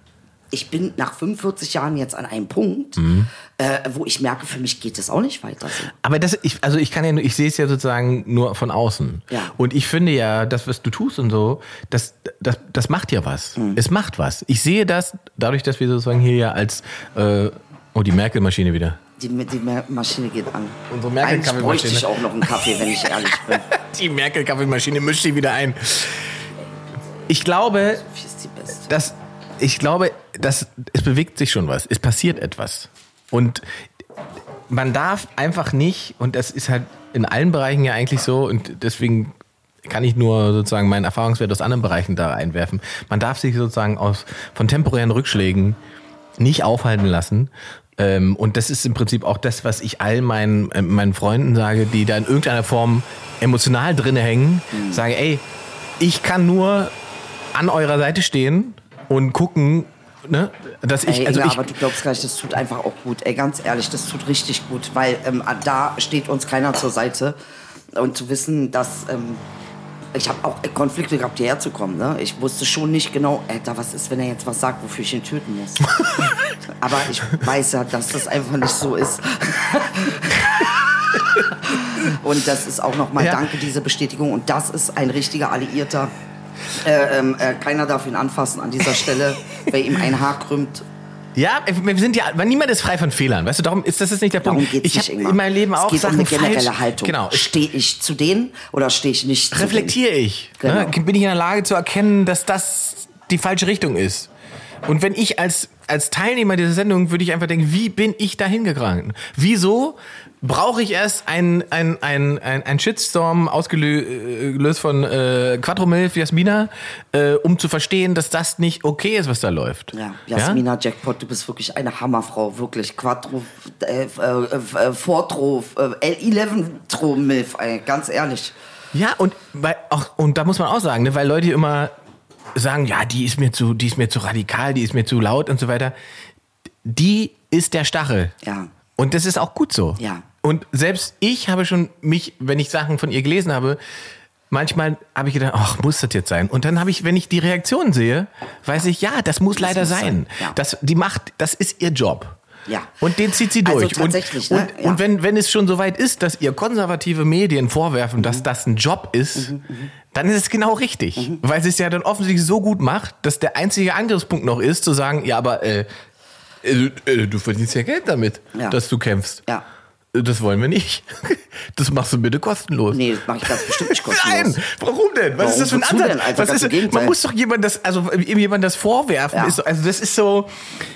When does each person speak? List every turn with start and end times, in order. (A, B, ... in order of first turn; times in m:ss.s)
0:00.5-0:05.9 A
0:03.0-0:03.3 B
0:05.9-0:19.0 B
0:13.6-0:13.8 A
0:19.2-0:23.7 A
0:20.9-0:26.4 B
0:27.3-0:28.0 B
0:27.9-0:28.9 A
0:28.9-0:33.6 B
0:34.7-0:45.8 B
0:46.4-0:55.4 B
0:54.7-0:55.0 A
0:56.0-0:56.9 B
0:57.5-1:01.7 B
1:01.0-1:07.4 A
1:07.9-1:09.4 A
1:10.1-1:16.0 A
1:16.8-1:20.4 A
1:21.6-1:26.1 A
1:23.2-1:23.4 B
1:26.8-1:30.8 A
1:31.4-1:37.5 B
1:34.4-1:39.9 A
1:39.5-1:44.3 B
1:40.6-1:40.9 A
1:44.8-2:00.6 B
1:59.9-2:08.5 A
2:08.9-2:11.9 B
2:12.5-2:15.9 B
2:16.8-2:18.3 B
2:18.4-2:18.7 A
2:19.0-2:23.8 B
2:20.0-2:20.2 A
2:24.5-2:32.4 B
2:29.6-2:30.6 A
2:32.7-2:32.9 A
2:33.0-2:39.6 B
2:33.6-2:35.0 A
2:39.4-2:39.9 A
2:40.1-2:45.9 B
2:46.6-2:49.4 B
2:50.1-3:00.5 B
2:52.9-2:54.6 A
2:55.4-2:57.2 A
2:59.3-2:59.6 A